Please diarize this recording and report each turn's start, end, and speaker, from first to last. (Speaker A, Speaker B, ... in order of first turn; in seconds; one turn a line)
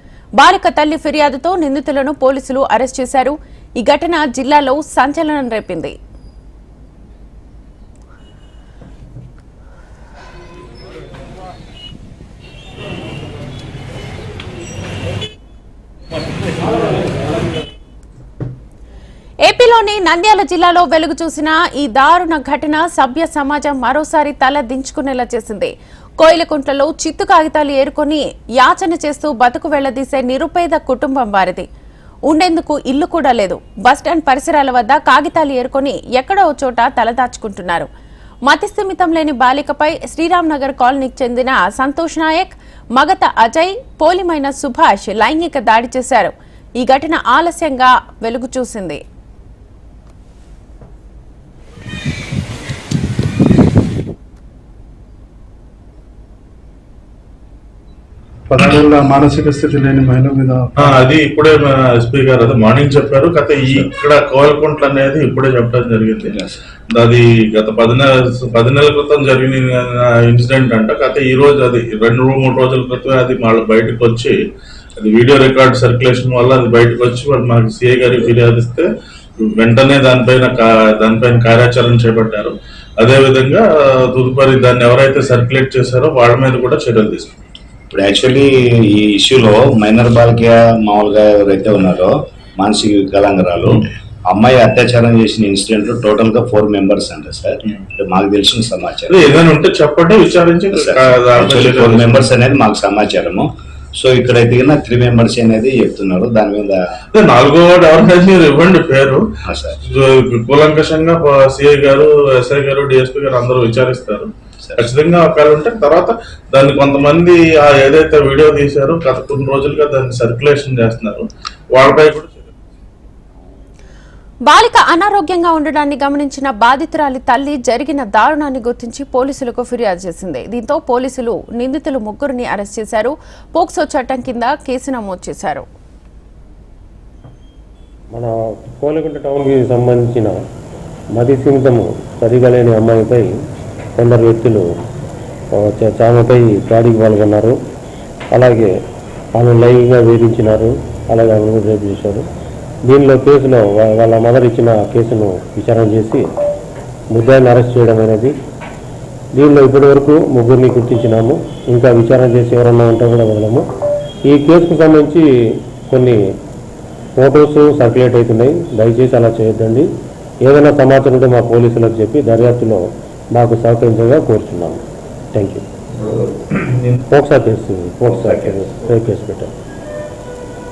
Speaker A: 0.4-5.9
Speaker A: 19.4-31.7
Speaker A: 32.3-37.9
Speaker A: 38.5-49.0
Speaker B: 58.5-61.0
Speaker C: 60.8-66.3
Speaker D: 66.3-66.6
Speaker C: 66.9-74.4
Speaker C: 75.0-78.9
Speaker C: 79.4-87.4
Speaker D: 87.9-99.4
Speaker C: 99.1-102.2
Speaker D: 100.7-106.8
Speaker C: 107.1-109.2
Speaker D: 109.5-109.8
Speaker C: 109.8-122.5
Speaker A: 124.5-135.7
Speaker E: 138.1-140.4
Speaker E: 141.2-143.3
Speaker E: 144.0-144.7
Speaker E: 145.6-147.6
Speaker E: 148.3-148.7
Speaker E: 149.4-152.3
Speaker E: 152.9-156.3
Speaker E: 157.1-158.3
Speaker E: 159.4-163.7
Speaker E: 164.3-165.3
Speaker E: 165.9-166.2
Speaker E: 167.2-169.9
Speaker E: 170.4-172.8
Speaker E: 173.4-174.8
Speaker E: 175.3-175.6
Speaker C: 176.1-177.0
Speaker E: 177.1-179.5